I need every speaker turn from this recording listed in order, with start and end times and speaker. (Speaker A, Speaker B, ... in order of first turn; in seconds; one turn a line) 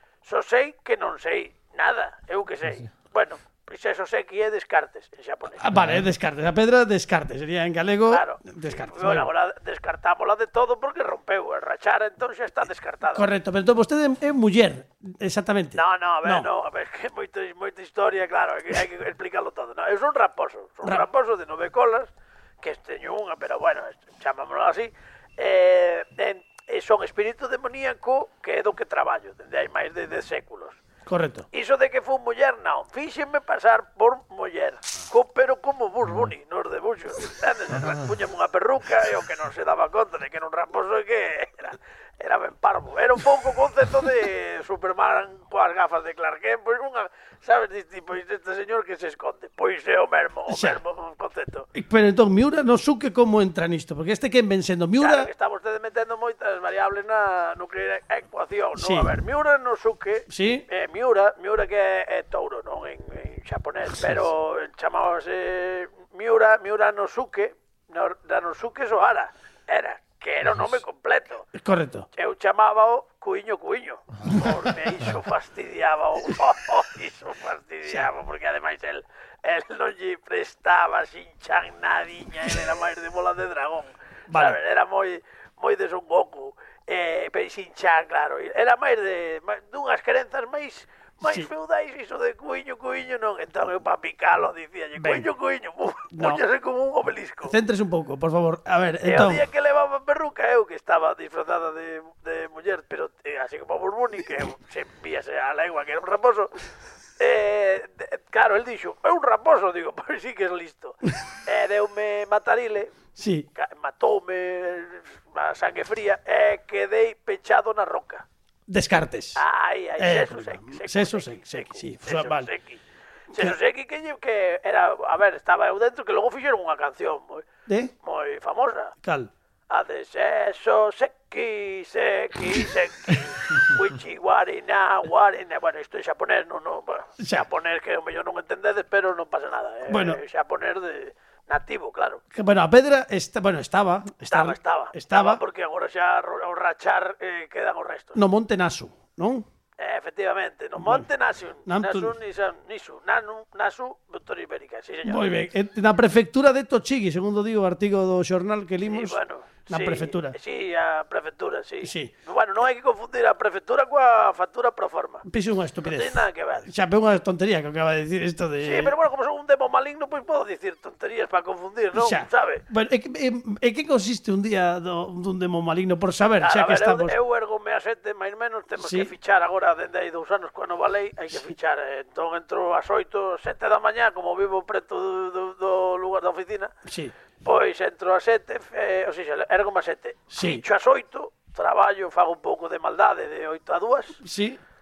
Speaker A: 0.2-5.7
Speaker B: 5.6-9.3
Speaker A: 8.1-13.3
Speaker B: 13.1-16.5
Speaker A: 15.8-30.8
Speaker B: 31.1-31.5
Speaker A: 31.5-51.7
Speaker B: 50.5-50.8
Speaker B: 51.7-55.3
Speaker A: 55.0-71.4
Speaker B: 58.8-59.1
Speaker B: 60.3-60.6
Speaker B: 71.5-72.1
Speaker A: 72.1-97.5
Speaker B: 84.3-84.6
Speaker B: 91.2-91.5
Speaker B: 95.0-95.3
Speaker B: 96.1-96.4
Speaker B: 97.5-99.4
Speaker A: 99.0-106.5
Speaker A: 107.2-113.0
Speaker B: 113.2-113.5
Speaker A: 113.5-118.2
Speaker B: 118.7-119.4
Speaker A: 119.3-121.4
Speaker B: 120.0-122.5
Speaker A: 122.0-122.8
Speaker A: 123.3-127.5
Speaker B: 127.7-127.9
Speaker A: 128.0-128.9
Speaker B: 129.0-129.3
Speaker A: 129.7-142.2
Speaker B: 137.2-137.4
Speaker B: 139.9-140.2
Speaker B: 142.3-145.4
Speaker A: 144.3-148.2
Speaker B: 148.2-149.4
Speaker A: 149.8-155.3
Speaker B: 150.8-151.0
Speaker B: 151.7-152.1
Speaker B: 155.1-160.3
Speaker A: 158.8-165.2
Speaker B: 161.8-162.1
Speaker B: 165.2-168.9
Speaker A: 165.8-166.7
Speaker A: 168.6-172.6
Speaker B: 171.9-177.1
Speaker A: 176.4-186.7
Speaker B: 178.8-179.1
Speaker B: 186.9-187.1
Speaker A: 187.4-194.2
Speaker B: 190.3-190.6
Speaker B: 194.2-194.6